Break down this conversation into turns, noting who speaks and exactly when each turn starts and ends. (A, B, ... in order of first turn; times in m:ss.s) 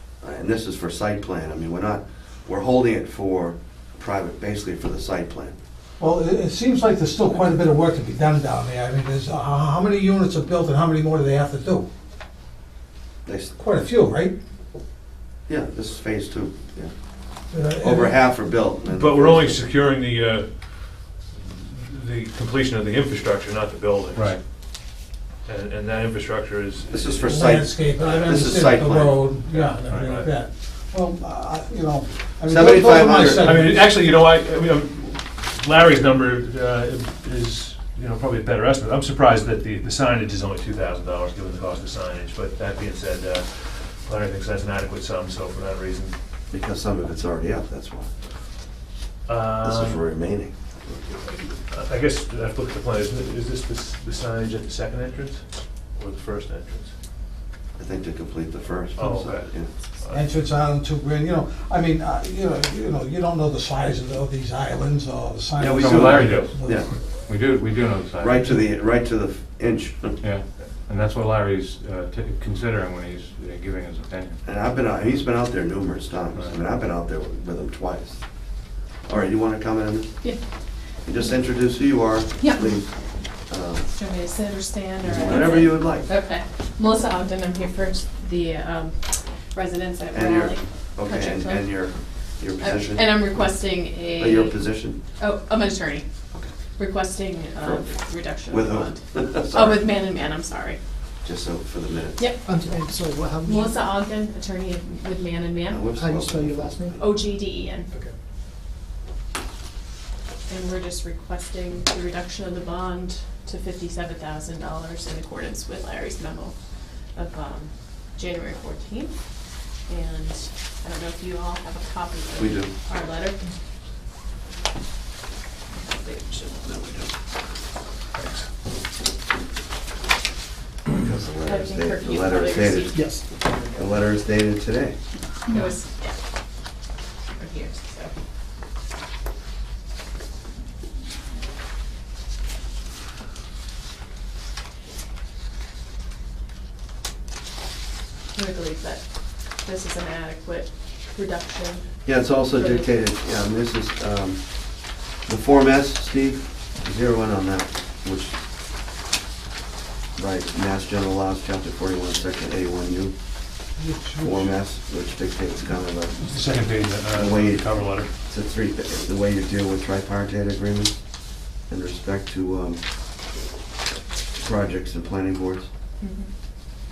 0:00.2-0:05.6 A
0:06.0-0:11.9 B
0:13.2-0:13.5 A
0:13.6-0:14.4 B
0:15.5-0:16.9 A
0:17.5-0:18.2 B
0:17.8-0:19.6 A
0:18.9-0:24.2 C
0:24.1-0:24.4 D
0:25.4-0:28.2 C
0:26.9-0:29.3 A
0:27.2-0:33.8 B
0:29.5-0:30.3 C
0:32.4-0:33.6 A
0:33.4-0:46.1 C
0:46.5-0:48.1 A
0:49.3-0:50.0 C
0:49.6-0:51.1 A
0:51.7-0:56.9 C
0:57.8-0:59.7 A
0:59.0-1:00.2 C
1:00.1-1:06.8 B
1:05.6-1:06.9 A
1:05.6-1:08.6 D
1:06.2-1:06.5 C
1:08.2-1:10.2 A
1:10.2-1:14.4 D
1:14.4-1:18.2 A
1:16.3-1:16.6 D
1:19.0-1:20.1 A
1:21.0-1:22.9 A
1:22.4-1:22.8 E
1:23.5-1:23.9 A
1:23.8-1:32.0 E
1:25.0-1:26.1 A
1:30.1-1:33.4 A
1:32.6-1:36.0 E
1:34.2-1:35.0 A
1:36.8-1:40.8 E
1:37.6-1:39.8 A
1:41.2-1:42.3 A
1:42.2-1:42.4 E
1:42.4-1:43.8 F
1:43.4-1:45.9 E
1:45.7-1:47.2 A
1:45.9-1:47.0 F
1:47.0-1:47.9 E
1:50.5-1:56.5 E
1:57.1-1:59.2 E
1:59.8-2:03.5 E
2:02.4-2:02.7 A
2:05.7-2:06.6 E
2:06.6-2:07.1 A
2:08.2-2:08.5 C
2:10.9-2:13.2 A
2:11.4-2:13.1 E
2:12.9-2:13.6 F
2:13.7-2:15.0 A
2:15.5-2:16.2 E
2:17.4-2:18.1 E
2:28.3-2:32.9 E
2:32.0-2:34.4 A
2:35.2-2:38.4 A
2:40.2-2:43.1 A
2:43.8-2:44.5 B
2:44.2-2:46.2 A
2:46.2-2:48.1 C
2:47.1-2:47.7 A
2:48.2-2:51.0 A
2:51.7-2:52.8 A
2:54.4-2:55.7 A
2:56.0-2:56.3 E